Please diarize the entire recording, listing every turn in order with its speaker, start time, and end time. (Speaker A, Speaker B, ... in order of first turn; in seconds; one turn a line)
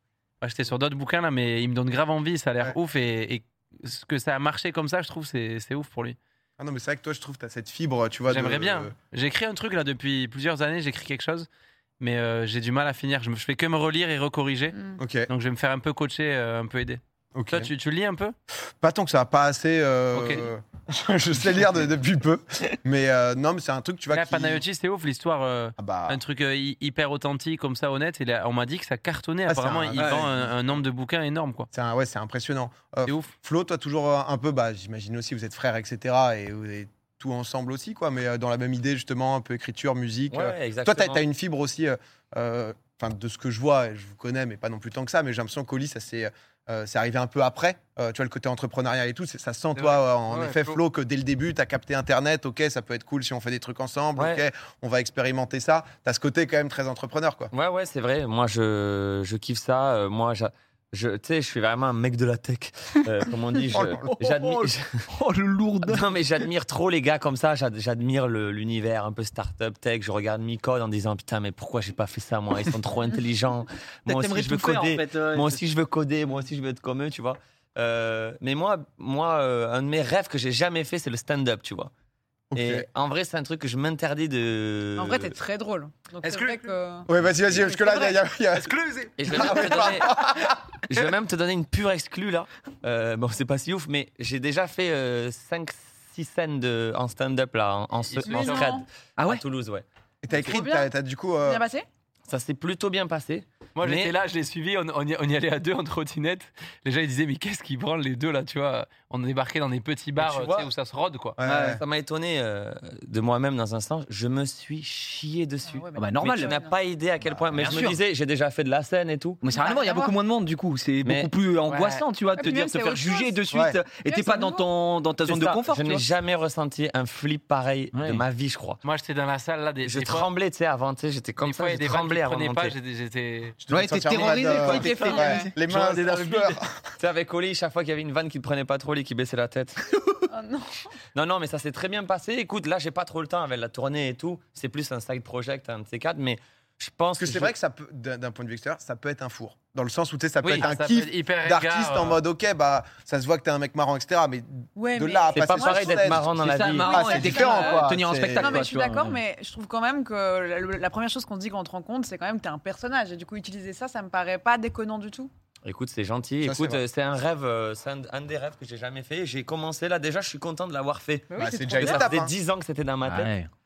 Speaker A: 0.4-6.2
Speaker B: 6.6-8.9
Speaker A: 8.3-11.5
Speaker A: 12.0-18.3
Speaker B: 15.0-15.3
Speaker B: 17.3-17.7
Speaker B: 18.8-24.6
Speaker A: 20.1-20.5
Speaker A: 24.1-31.7
Speaker B: 25.8-26.2
Speaker B: 29.5-30.5
Speaker C: 29.9-30.3
Speaker B: 31.7-57.5
Speaker A: 33.0-33.3
Speaker D: 40.3-41.2
Speaker A: 49.8-50.8
Speaker D: 54.2-54.4
Speaker D: 57.5-65.0
Speaker B: 63.7-64.0
Speaker C: 63.7-66.1
Speaker D: 65.8-81.9
Speaker C: 74.1-75.6
Speaker B: 82.5-82.8
Speaker D: 82.5-85.3
Speaker E: 85.0-88.2
Speaker A: 86.2-86.7
Speaker B: 87.0-88.7
Speaker A: 88.5-89.6
Speaker D: 89.2-99.8
Speaker B: 89.3-90.5
Speaker A: 98.0-98.7
Speaker E: 98.2-98.8
Speaker C: 99.2-99.4
Speaker B: 100.2-101.6
Speaker E: 100.3-100.9
Speaker E: 101.4-101.8
Speaker D: 102.3-104.1
Speaker A: 103.8-111.4
Speaker D: 110.2-110.7
Speaker B: 111.4-111.8
Speaker C: 111.4-111.8
Speaker D: 111.5-119.4
Speaker E: 115.6-116.7
Speaker C: 115.9-116.5
Speaker C: 117.5-118.0
Speaker C: 119.4-126.0
Speaker E: 119.5-120.1
Speaker D: 121.0-121.3
Speaker A: 121.7-122.0
Speaker E: 122.3-123.4
Speaker B: 123.5-123.8
Speaker E: 124.0-124.7
Speaker D: 125.2-128.8
Speaker C: 127.9-128.2
Speaker A: 128.8-130.3
Speaker D: 129.8-132.7
Speaker A: 131.4-133.6
Speaker B: 133.6-136.9
Speaker C: 133.7-135.4
Speaker D: 134.1-135.4
Speaker E: 134.2-135.5
Speaker A: 135.7-136.6
Speaker D: 137.0-139.8
Speaker E: 140.3-140.9
Speaker D: 141.1-147.5
Speaker B: 147.2-158.6
Speaker A: 150.4-152.2
Speaker E: 154.8-156.1
Speaker D: 155.3-157.0
Speaker C: 156.3-159.2
Speaker E: 156.8-165.3
Speaker D: 165.6-173.3
Speaker B: 166.4-166.8
Speaker E: 171.3-172.1
Speaker B: 171.4-172.3
Speaker C: 173.0-173.5